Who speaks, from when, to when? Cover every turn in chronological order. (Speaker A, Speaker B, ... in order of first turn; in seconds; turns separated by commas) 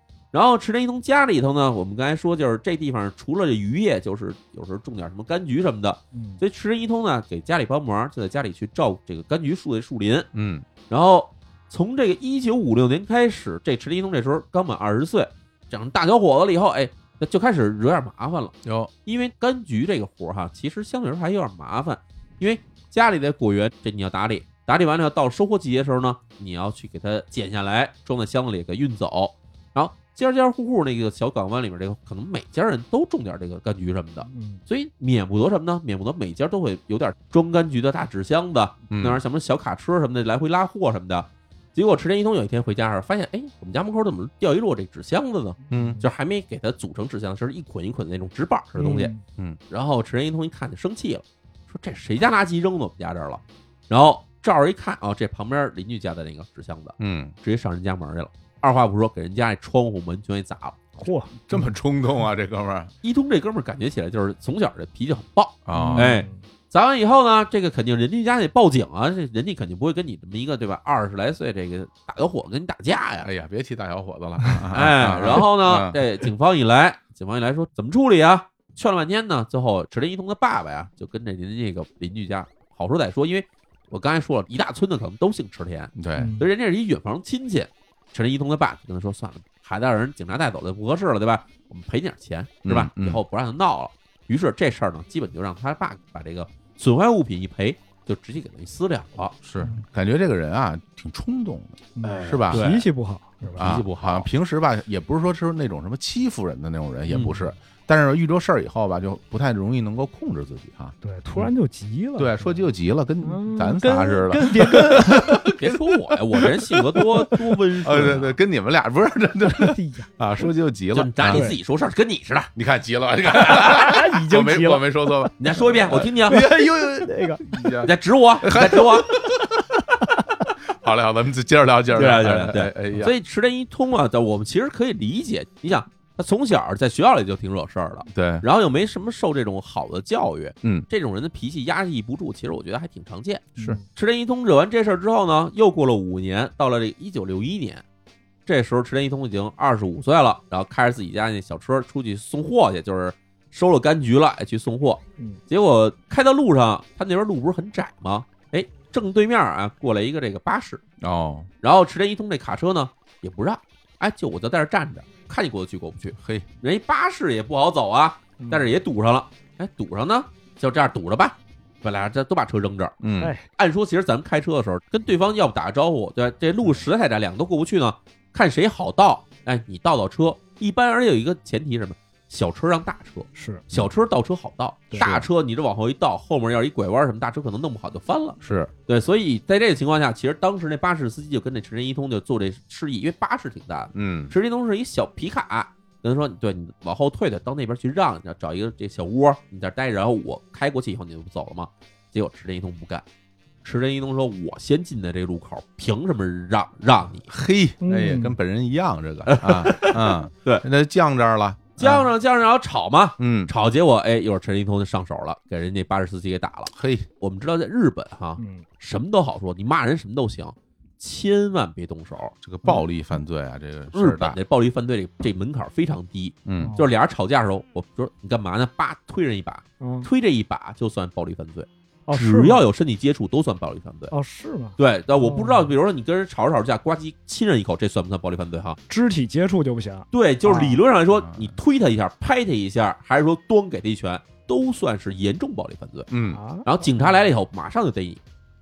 Speaker A: 0.3-10.3, Speaker B: 6.1-6.4, Speaker C: 10.3-10.7, Speaker A: 10.9-49.1, Speaker C: 18.6-18.9, Speaker B: 34.3-34.6, Speaker C: 38.9-39.2, Speaker B: 45.7-46.0, Speaker C: 45.7-46.0, Speaker B: 48.8-49.2, Speaker A: 49.7-60.8, Speaker C: 57.0-57.3, Speaker B: 61.0-61.4, Speaker C: 61.5-62.9, Speaker A: 63.0-73.3, Speaker C: 65.7-66.1, Speaker B: 65.7-66.4, Speaker C: 73.2-76.0, Speaker A: 74.7-99.3, Speaker C: 86.0-86.3, Speaker B: 86.2-86.4, Speaker C: 92.6-93.2, Speaker C: 99.4-102.7, Speaker B: 102.0-103.7, Speaker A: 102.0-102.9, Speaker A: 103.5-104.3, Speaker C: 103.5-111.5, Speaker B: 107.1-107.5, Speaker B: 111.0-112.6, Speaker C: 112.2-115.8, Speaker B: 113.2-115.5, Speaker A: 115.5-118.3, Speaker C: 117.0-117.2, Speaker C: 117.8-121.5, Speaker B: 119.5-120.5, Speaker A: 120.9-122.5, Speaker B: 121.3-121.6, Speaker C: 122.5-129.8, Speaker B: 123.4-125.3, Speaker A: 125.4-126.4, Speaker B: 126.2-127.6, Speaker A: 127.8-129.1, Speaker C: 130.6-133.1, Speaker A: 131.9-147.8, Speaker C: 138.1-138.4, Speaker B: 143.6-143.8, Speaker A: 148.4-160.8, Speaker C: 161.0-161.5, Speaker A: 161.6-172.9, Speaker C: 166.2-166.4, Speaker B: 168.4-168.7, Speaker C: 173.0-173.3, Speaker B: 173.2-173.4, Speaker A: 173.5-203.0, Speaker B: 183.3-183.6, Speaker C: 185.0-185.3, Speaker C: 188.4-188.7, Speaker C: 193.9-194.3, Speaker A: 203.6-207.3, Speaker C: 207.3-212.1, Speaker B: 207.8-208.3, Speaker A: 209.2-210.6, Speaker A: 211.8-222.3, Speaker C: 213.2-213.5, Speaker C: 216.7-217.1, Speaker B: 218.4-218.6, Speaker C: 222.4-224.4, Speaker A: 223.9-234.1, Speaker C: 226.4-226.8, Speaker B: 226.6-226.8, Speaker B: 229.8-230.1, Speaker B: 232.1-232.6, Speaker B: 234.1-235.7, Speaker A: 234.8-238.8, Speaker B: 238.9-240.8, Speaker A: 240.1-246.1, Speaker C: 241.1-241.5, Speaker C: 246.1-246.4, Speaker B: 246.3-247.1, Speaker A: 246.6-248.2